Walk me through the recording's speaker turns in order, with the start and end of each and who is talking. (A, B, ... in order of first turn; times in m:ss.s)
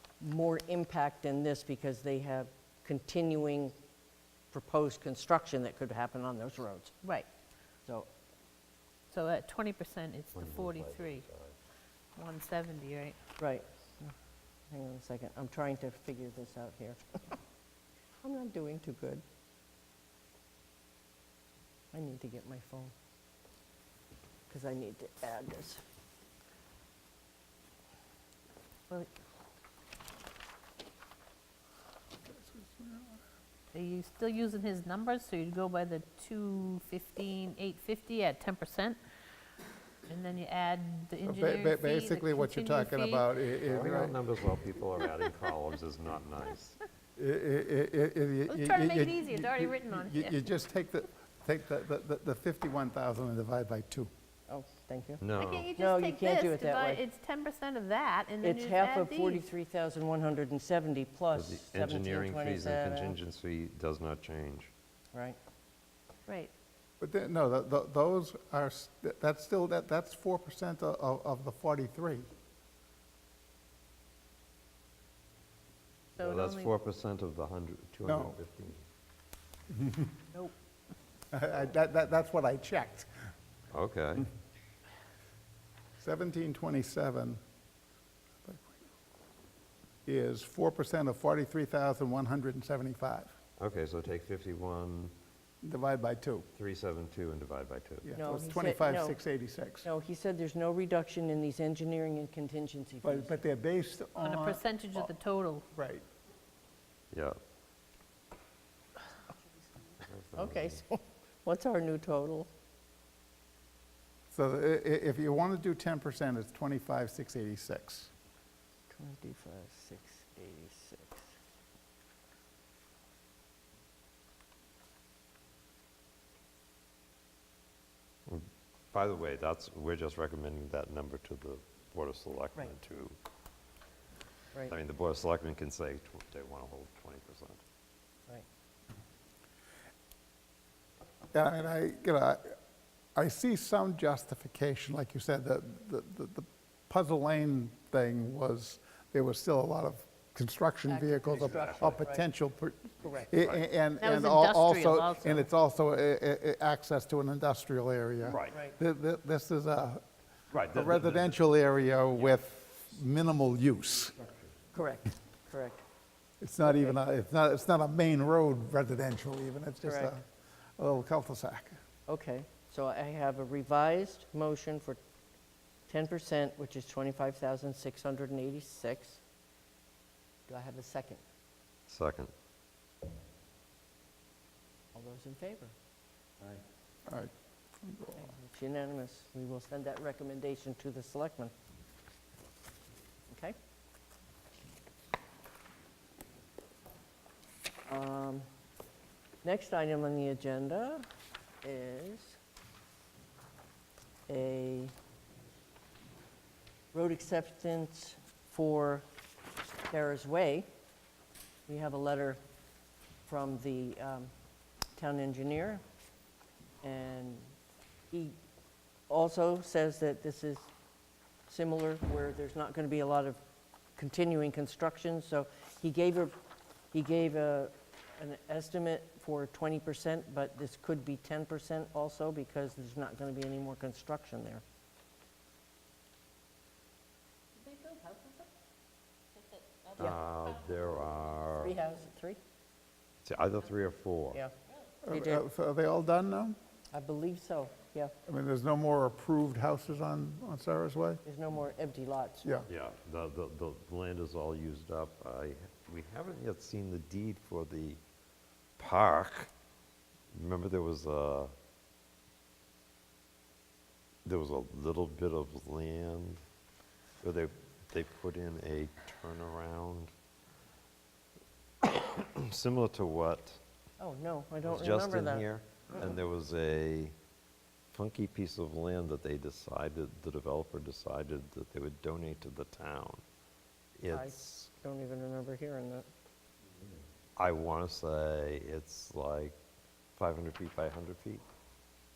0:00.2-0:03.7 A
0:04.5-0:07.0 A
0:09.1-0:11.2 B
0:10.3-0:11.5 C
0:12.2-0:13.2 B
0:13.4-0:14.1 A
0:14.7-0:17.4 A
0:18.2-0:19.2 A
0:21.9-0:22.9 A
0:24.5-0:25.8 A
0:32.3-0:33.2 D
0:33.7-0:39.0 B
0:40.1-0:43.2 B
0:41.2-0:44.2 D
0:43.6-0:46.8 C
0:47.2-0:54.1 D
0:48.5-0:50.5 B
0:54.5-0:55.2 A
0:55.2-0:55.7 C
0:55.4-0:59.4 B
0:55.8-0:57.0 A
0:58.4-1:03.2 A
1:01.3-1:04.7 C
1:06.3-1:06.5 B
1:07.0-1:12.3 D
1:16.2-1:16.7 B
1:16.2-1:18.8 C
1:18.0-1:18.3 D
1:19.7-1:20.1 D
1:21.3-1:23.1 D
1:23.7-1:24.3 C
1:26.0-1:27.4 D
1:28.4-1:28.7 D
1:30.0-1:33.3 D
1:33.6-1:35.1 C
1:35.6-1:36.5 D
1:36.5-1:38.1 C
1:38.0-1:39.9 D
1:38.2-1:39.2 A
1:39.8-1:43.4 A
1:43.0-1:45.1 D
1:44.2-1:45.6 B
1:45.7-1:46.0 D
1:47.1-1:47.4 C
1:50.0-1:50.8 C
1:50.3-1:52.5 A
1:54.3-1:58.1 D
1:58.9-2:01.3 A
2:08.3-2:13.2 C
2:14.7-2:17.6 C
2:21.3-2:22.5 D
2:23.1-2:40.0 D
2:30.9-2:32.3 A
2:31.3-2:32.0 C
2:33.0-2:33.3 A
2:33.3-2:33.6 C
2:34.0-2:35.5 B
2:38.2-2:38.6 C
2:38.5-2:38.8 A
2:40.5-2:41.4 C
2:40.6-2:44.2 D
2:44.7-2:45.8 A
2:46.4-2:50.2 D
2:46.6-2:47.0 A
2:49.8-2:50.2 A
2:50.8-2:51.8 D
2:52.1-2:55.0 A
2:55.9-2:59.2 A
3:00.5-3:01.2 A
3:01.9-3:02.3 C
3:04.9-3:05.7 A
3:07.1-3:07.3 D
3:07.8-3:08.3 D
3:08.1-3:11.5 A
3:13.3-3:13.6 A
3:17.9-3:18.5 A
3:19.4-3:21.1 A
3:21.6-3:22.4 A
3:24.3-3:24.9 A
3:26.9-3:29.0 A
3:29.9-3:30.7 A
3:31.7-3:32.4 A
3:33.2-3:34.3 A
3:35.0-3:35.8 A
3:36.8-3:37.5 A
3:38.1-3:38.4 A
3:39.1-3:40.7 A
3:41.5-3:43.4 A
3:44.0-3:46.3 A
3:46.9-3:54.6 A
3:57.6-3:58.5 B
3:59.4-4:00.8 B
4:00.0-4:01.8 C
4:01.6-4:02.4 A
4:03.2-4:04.4 C
4:05.0-4:06.6 D
4:05.1-4:05.4 A
4:06.9-4:08.2 A
4:08.2-4:11.2 D
4:11.2-4:12.6 A
4:12.7-4:18.0 C
4:18.8-4:19.5 C
4:20.3-4:21.5 C
4:24.2-4:26.4 C
4:27.2-4:30.1 C
4:31.8-4:33.6 C
4:34.0-4:35.4 A
4:34.6-4:37.1 C
4:37.9-4:43.2 C
4:44.0-4:44.7 C
4:44.1-4:46.1 A
4:47.4-4:49.6 C
4:50.2-4:51.4 C